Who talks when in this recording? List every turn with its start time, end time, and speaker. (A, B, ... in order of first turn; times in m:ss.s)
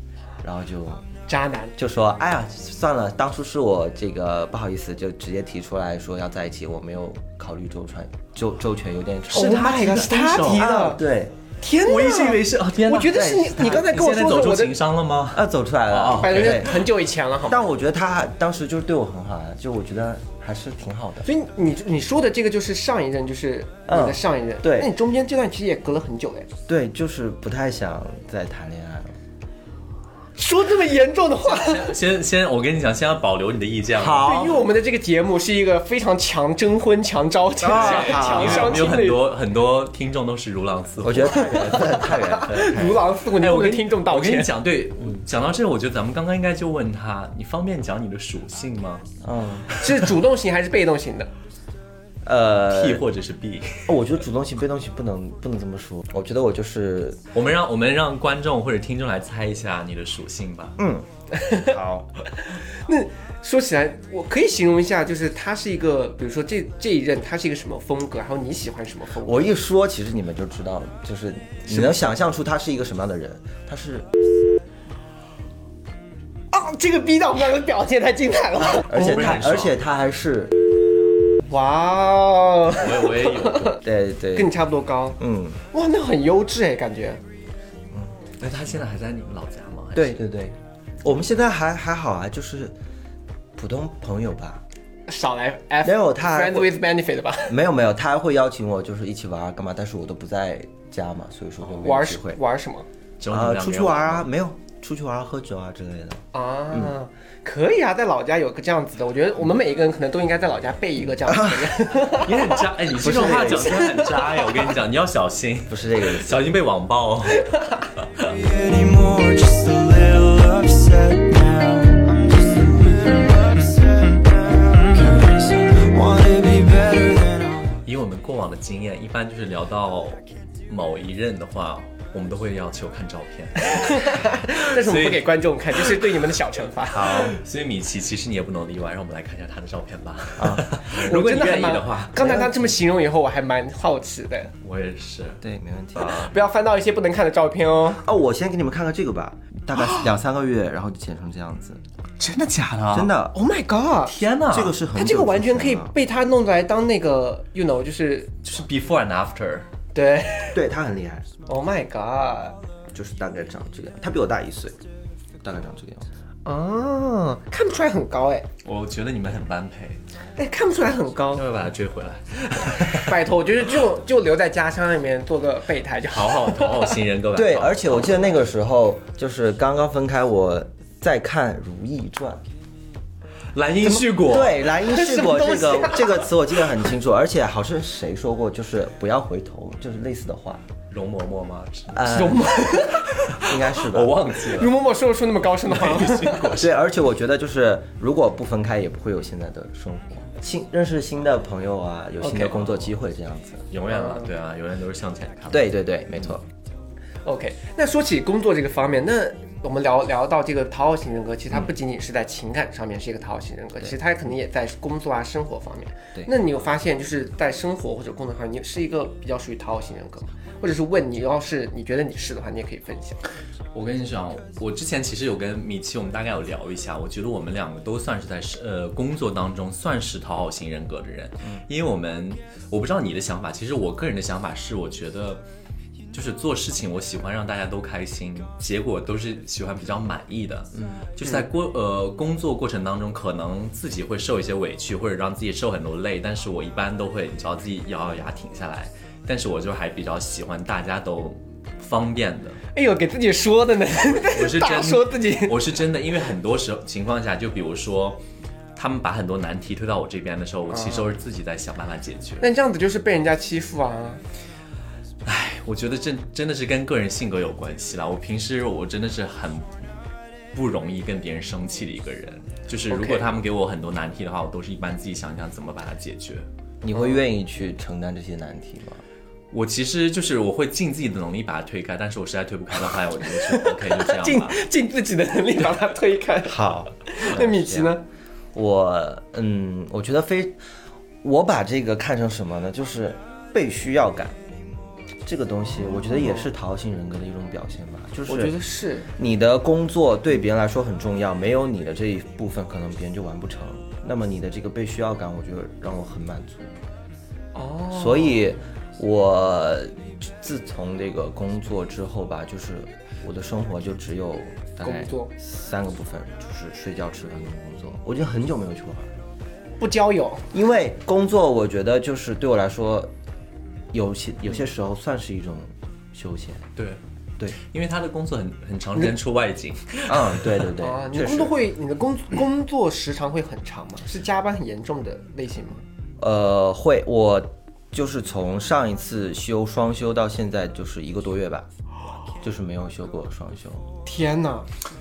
0:00.4-0:01.1 A
0:01.3-0:01.8 B
0:01.8-0:09.7 A
0:09.3-0:10.8 C
0:09.3-0:11.0 B
0:10.4-0:11.4 A
0:11.6-0:14.8 B
0:11.8-0:16.8 C
0:13.1-0:13.9 A
0:15.3-0:16.8 A
0:16.1-0:17.6 B
0:17.4-0:21.3 A
0:21.2-0:26.5 B
0:23.9-0:24.9 A
0:26.7-0:29.2 A
0:30.4-0:32.0 B
0:31.5-0:34.3 C
0:34.0-0:34.7 A
0:34.2-0:39.3 B
0:37.6-0:38.9 A
0:37.7-0:41.8 C
0:41.0-0:43.0 A
0:41.3-0:44.5 B
0:42.5-0:42.8 C
0:43.3-0:49.1 C
0:49.2-0:49.9 A
0:49.8-0:51.3 B
0:52.2-0:53.0 A
0:52.7-0:54.0 C
0:53.9-0:57.2 A
0:57.3-1:00.8 C
1:00.8-1:02.1 A
1:01.3-1:01.7 B
1:02.4-1:09.5 B
1:09.2-1:14.1 A
1:11.7-1:12.0 B
1:16.5-1:19.3 B
1:18.9-1:20.6 A
1:18.9-1:19.8 C
1:21.4-1:23.8 B
1:22.7-1:23.8 C
1:23.8-1:24.5 A
1:24.4-1:25.2 B
1:25.2-1:25.6 A
1:25.7-1:27.2 B
1:27.9-1:28.2 A
1:28.4-1:30.2 C
1:30.0-1:32.8 A
1:33.6-1:34.6 A
1:35.1-1:37.6 B
1:35.8-1:36.7 A
1:37.5-1:42.4 A
1:41.8-1:42.9 B
1:43.2-1:44.3 C
1:43.3-1:46.9 A
1:46.3-1:52.6 B
1:51.2-1:51.7 A
1:52.1-1:57.5 C
1:53.0-1:54.0 A
1:53.4-1:54.6 B
1:55.7-1:56.4 A
1:58.2-2:07.8 D
2:07.8-2:15.3 C
2:13.6-2:17.3 B
2:16.9-2:17.4 A
2:17.0-2:22.5 C
2:20.4-2:21.2 A
2:20.9-2:24.5 B
2:22.2-2:22.7 A
2:24.6-2:25.4 C
2:25.4-2:26.3 A
2:26.0-2:28.0 B
2:28.0-2:31.8 A
2:29.7-2:30.1 B
2:32.2-2:33.1 C
2:32.9-2:33.4 A
2:33.3-2:34.2 B
2:34.1-2:34.8 C
2:34.5-2:35.9 A
2:34.9-2:38.4 B
2:38.4-2:39.7 C
2:39.9-2:40.6 B
2:40.5-2:41.3 A
2:41.5-2:42.6 B
2:42.9-2:44.8 A
2:45.4-2:46.1 A
2:46.4-2:48.5 B
2:48.6-2:50.0 C
2:50.4-2:51.4 B
2:51.3-2:53.2 C
2:52.8-2:57.0 B
2:56.1-2:58.2 C
2:57.3-3:02.4 A
3:03.5-3:04.6 C
3:04.2-3:10.6 A
3:04.7-3:06.4 B
3:10.9-3:12.1 C
3:11.9-3:14.2 A
3:12.1-3:13.5 B
3:13.7-3:14.7 C
3:14.4-3:16.5 B
3:15.7-3:16.7 C
3:16.5-3:23.7 A
3:22.2-3:22.7 B
3:23.7-3:25.7 C
3:23.9-3:24.3 B
3:25.5-3:26.4 A
3:27.2-3:43.2 B
3:43.7-3:55.4 C
3:56.1-4:12.6 C
4:00.8-4:01.0 A
4:12.7-4:15.7 B
4:14.3-4:18.2 C
4:18.8-4:22.5 C
4:20.7-4:21.2 B
4:22.4-4:24.2 B
4:25.2-4:29.7 C
4:30.5-4:36.5 C
4:32.9-4:33.3 B
4:36.8-4:39.0 A
4:36.9-4:37.2 B
4:39.5-4:44.6 C
4:43.3-4:48.0 B
4:46.4-4:48.0 A
4:48.5-4:50.6 A
4:51.2-4:54.4 A
4:55.2-4:58.6 A
4:56.0-4:56.5 B
4:58.3-4:59.1 B
4:59.2-5:06.7 A
5:07.6-5:08.5 B
5:07.9-5:19.1 A
5:14.8-5:15.3 B
5:19.8-5:20.5 B
5:20.5-5:23.1 A
5:23.9-5:26.7 A
5:27.5-5:30.5 C
5:30.1-5:31.5 A
5:30.8-5:35.8 B
5:36.2-5:41.7 A
5:42.4-5:43.9 A
5:44.0-5:44.7 B